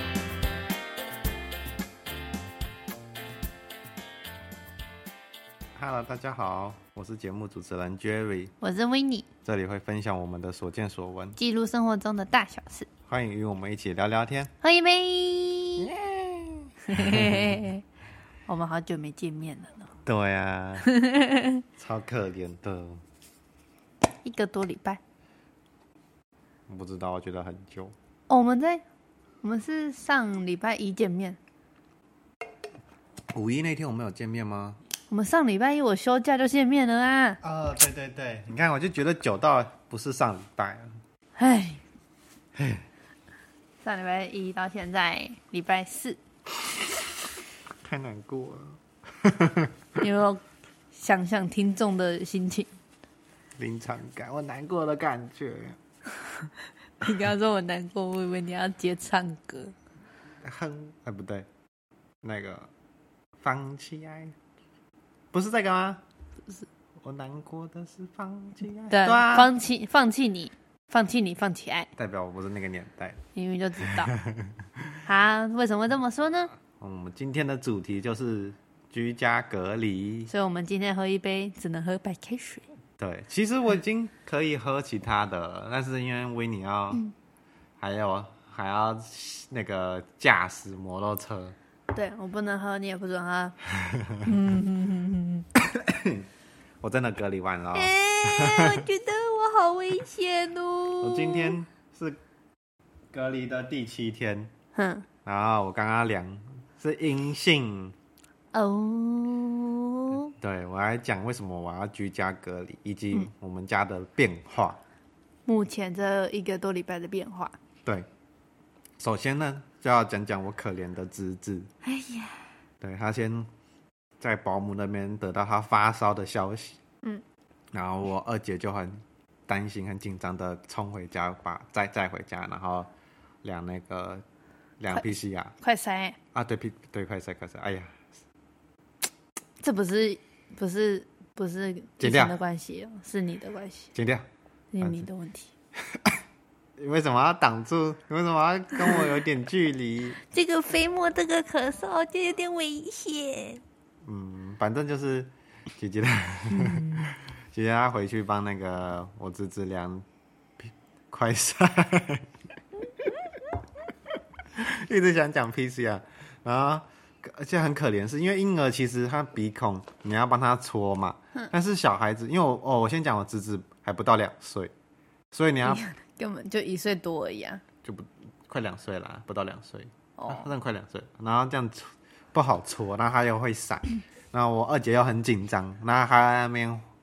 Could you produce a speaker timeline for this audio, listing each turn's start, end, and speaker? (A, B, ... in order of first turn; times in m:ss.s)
0:05.8-0:08.5 A
0:08.6-0:09.3 B
0:09.4-0:11.4 A
0:11.4-0:12.9 B
0:13.1-0:14.5 A
0:14.6-0:15.9 B
0:15.8-0:17.6 A
0:16.9-0:17.8 B
0:18.5-0:19.9 B
0:20.0-0:20.9 A
0:20.8-0:21.6 B
0:21.8-0:23.0 A
0:24.2-0:25.0 B
0:26.7-0:27.9 A
0:28.3-0:28.8 B
0:29.4-0:31.4 B
0:33.3-0:34.8 A
0:35.1-0:37.4 B
0:37.4-0:40.9 A
0:41.4-0:41.8 B
0:42.5-0:42.8 A
0:43.8-0:46.2 B
0:47.8-0:49.7 A
0:50.0-0:50.4 B
0:50.9-0:52.7 B
0:53.6-0:55.8 A
0:57.0-0:59.7 B
1:00.4-1:01.5 A
1:02.2-1:02.7 A
1:03.4-1:04.3 A
1:05.3-1:06.0 A
1:07.0-1:09.5 A
1:08.9-1:11.9 B
1:12.0-1:13.2 A
1:13.3-1:14.1 B
1:15.0-1:16.5 B
1:16.8-1:20.3 A
1:20.3-1:22.7 B
1:23.0-1:27.0 A
1:27.8-1:31.5 A
1:31.9-1:33.5 B
1:33.8-1:34.2 A
1:34.2-1:35.4 B
1:35.6-1:36.3 A
1:36.8-1:38.8 A
1:37.7-1:41.6 B
1:41.0-1:42.2 A
1:43.1-1:44.5 A
1:44.7-1:45.0 B
1:45.2-1:47.9 A
1:48.5-1:50.3 B
1:50.3-1:54.8 A
1:55.4-1:57.5 B
1:59.0-2:01.7 A
2:01.8-2:02.4 B
2:02.8-2:03.5 A
2:04.2-2:06.8 A
2:07.7-2:12.9 A
2:13.4-2:14.2 A
2:14.8-2:15.5 A
2:15.6-2:16.2 B
2:16.3-2:18.0 A
2:19.6-2:23.9 B
2:22.0-2:22.4 A
2:23.9-2:24.2 A
2:24.7-2:25.5 B
2:24.8-2:25.1 A
2:26.8-2:30.2 A
2:30.2-2:33.6 B
2:34.0-2:40.0 A
2:36.5-2:37.1 B
2:40.6-2:42.3 A
2:44.5-2:54.7 A
2:55.3-2:55.8 A
2:55.6-2:57.6 B
2:57.8-3:06.8 A
3:00.2-3:00.5 B